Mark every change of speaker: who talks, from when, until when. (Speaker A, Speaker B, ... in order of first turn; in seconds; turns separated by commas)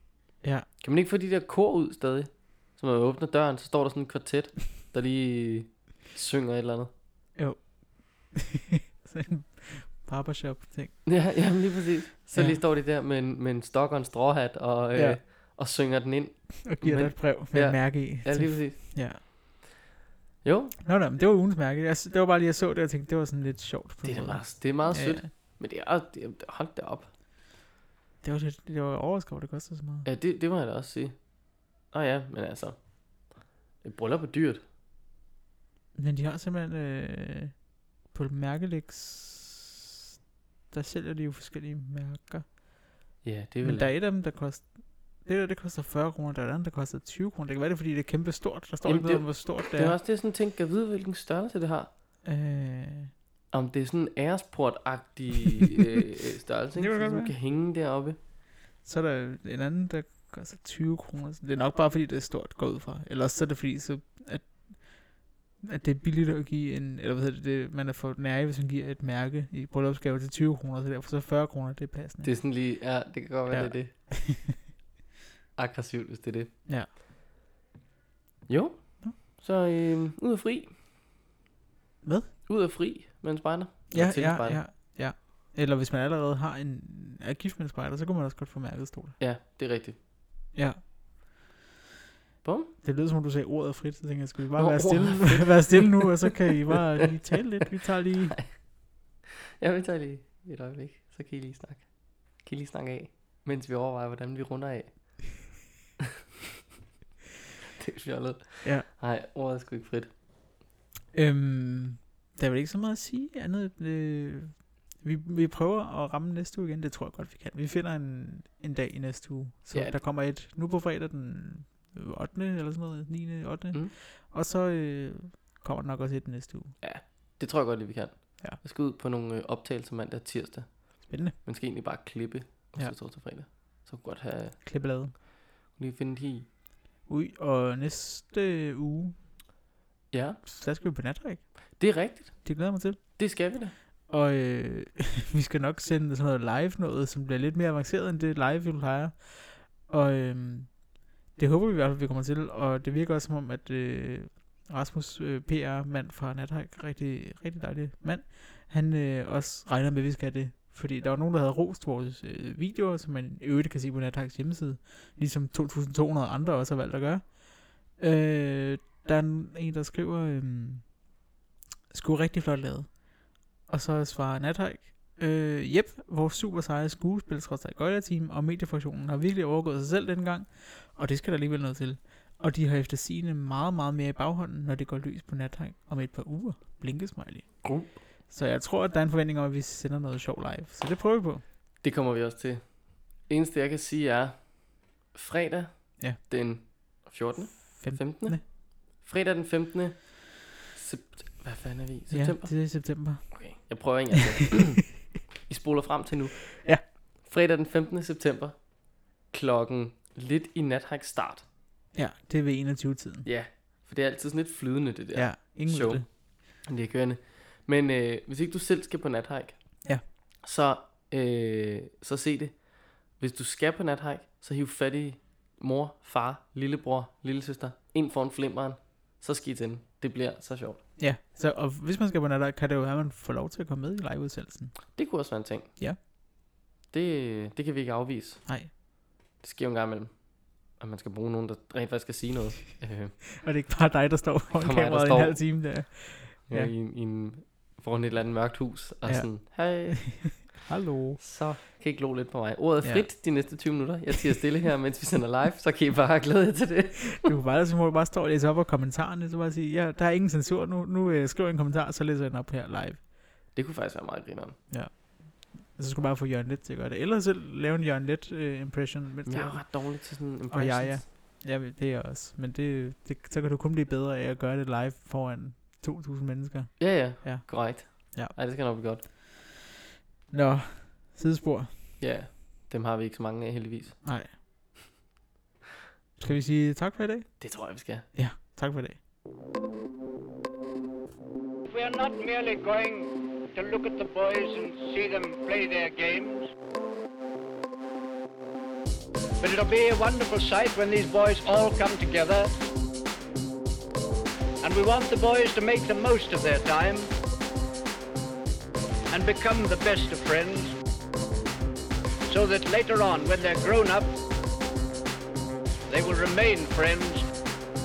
Speaker A: 0.8-6.9, Speaker B: 7.4-11.1, Speaker A: 11.1-18.9, Speaker B: 12.3-12.6, Speaker B: 14.9-15.2, Speaker B: 16.6-19.2, Speaker A: 20.4-20.8, Speaker B: 20.8-25.3, Speaker A: 24.0-27.1, Speaker B: 28.2-30.1, Speaker A: 30.0-31.1, Speaker A: 31.9-32.8, Speaker A: 33.8-34.6, Speaker B: 36.0-37.5, Speaker B: 38.1-39.8, Speaker B: 40.7-42.5, Speaker A: 43.2-43.9, Speaker B: 43.6-50.0, Speaker A: 48.9-51.9, Speaker B: 52.2-53.1, Speaker A: 53.5-58.2, Speaker B: 56.8-57.4, Speaker B: 58.8-64.8, Speaker B: 65.6-72.4, Speaker A: 72.2-73.9, Speaker B: 73.5-74.6, Speaker A: 75.6-76.5, Speaker A: 78.5-80.7, Speaker B: 82.0-82.3, Speaker A: 82.5-84.6, Speaker B: 83.9-89.2, Speaker A: 89.2-90.0, Speaker A: 92.4-92.7, Speaker B: 92.8-98.5, Speaker A: 94.6-96.8, Speaker A: 99.6-105.4, Speaker A: 107.8-110.1, Speaker B: 111.1-126.7, Speaker A: 119.7-120.0, Speaker A: 126.8-134.6, Speaker B: 131.1-131.3, Speaker B: 134.7-135.1, Speaker A: 135.7-136.5, Speaker B: 137.1-139.2, Speaker A: 140.1-140.4, Speaker B: 140.5-141.5, Speaker A: 141.8-142.5, Speaker B: 142.4-143.0, Speaker A: 143.2-143.7, Speaker B: 144.1-150.7, Speaker B: 151.4-170.9, Speaker B: 171.9-173.0, Speaker B: 173.7-187.7, Speaker A: 187.6-187.9, Speaker B: 188.3-191.4, Speaker A: 191.8-202.6, Speaker B: 197.8-198.4, Speaker B: 202.1-203.7, Speaker A: 203.3-206.6, Speaker A: 207.2-208.6, Speaker A: 209.3-211.4, Speaker B: 211.9-213.3, Speaker A: 213.2-219.6, Speaker B: 215.2-216.1, Speaker A: 220.4-222.6, Speaker A: 223.2-230.8, Speaker B: 231.0-234.7, Speaker A: 234.9-235.7, Speaker A: 236.9-238.4, Speaker A: 239.4-240.1, Speaker A: 240.8-243.2, Speaker B: 243.3-246.7, Speaker A: 244.6-245.4, Speaker A: 246.5-250.5, Speaker B: 249.1-251.2, Speaker A: 251.2-257.3, Speaker B: 252.8-253.1, Speaker B: 257.2-263.0, Speaker A: 263.6-264.6, Speaker B: 264.7-269.8, Speaker A: 269.3-271.0, Speaker B: 270.5-278.4, Speaker A: 276.8-279.0, Speaker B: 280.3-281.7, Speaker A: 282.0-284.0, Speaker B: 284.0-284.3, Speaker B: 286.2-287.3, Speaker A: 287.4-288.1, Speaker B: 288.1-289.0, Speaker C: 291.7-296.5, Speaker C: 299.4-302.5, Speaker C: 304.6-307.1, Speaker C: 309.1-310.7, Speaker C: 312.3-314.1, Speaker C: 315.9-317.3